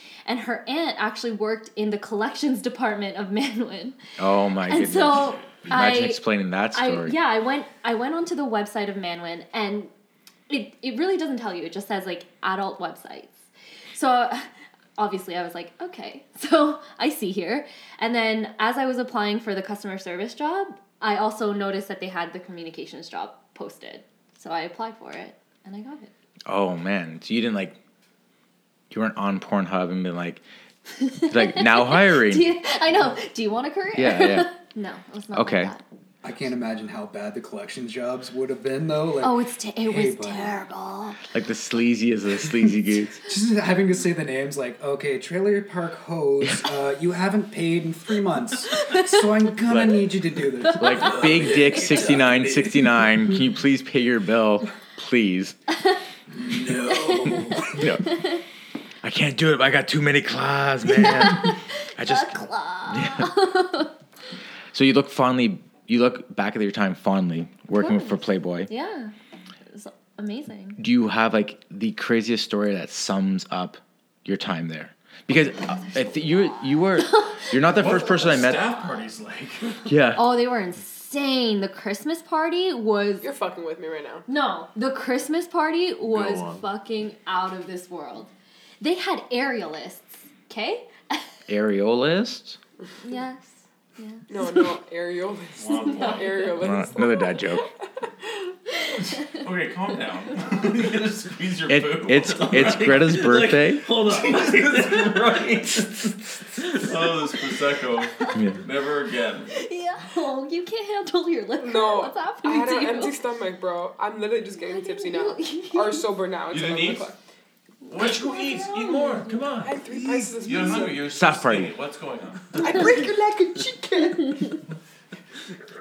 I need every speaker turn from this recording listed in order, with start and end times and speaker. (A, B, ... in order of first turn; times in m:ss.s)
0:00.3-0:04.0 A
0:04.2-0:07.2 B
0:04.6-0:09.9 A
0:10.5-0:26.1 A
0:26.5-0:27.8 B
0:28.9-0:30.4 B
0:31.0-0:35.8 A
0:31.3-0:32.5 B
0:33.9-0:34.5 B
0:35.3-0:35.7 B
0:36.2-0:40.6 C
0:39.2-0:41.2 A
0:41.3-0:43.2 B
0:43.3-0:51.6 C
0:46.4-0:46.7 B
0:48.8-0:49.2 A
0:49.7-0:50.1 B
0:50.8-0:55.6 B
0:51.0-0:52.9 D
0:56.4-0:57.8 D
0:56.9-0:58.4 A
0:57.6-0:58.2 B
0:59.0-1:03.3 B
1:00.9-1:03.9 A
1:04.7-1:08.7 B
1:07.7-1:09.1 A
1:09.7-1:10.8 A
1:10.8-1:18.8 B
1:15.7-1:19.0 A
1:17.8-1:19.9 E
1:19.9-1:20.3 B
1:20.1-1:23.3 A
1:23.2-1:24.3 F
1:24.3-1:31.2 A
1:26.1-1:26.6 E
1:31.5-1:32.6 B
1:33.0-1:34.7 A
1:34.3-1:37.4 F
1:35.6-1:36.5 E
1:35.8-1:36.6 A
1:36.6-1:37.6 B
1:39.3-1:43.1 E
1:41.7-1:43.9 B
1:42.2-1:46.9 D
1:44.0-1:45.9 E
1:46.7-1:49.5 E
1:48.3-1:48.6 B
1:49.5-1:53.2 A
1:51.6-1:57.2 F
1:54.6-1:56.1 A
1:56.5-1:57.1 E
1:57.8-1:59.4 A
1:57.9-1:59.8 E
1:59.6-2:01.0 F
2:00.4-2:02.8 E
2:01.1-2:01.7 B
2:02.6-2:04.6 F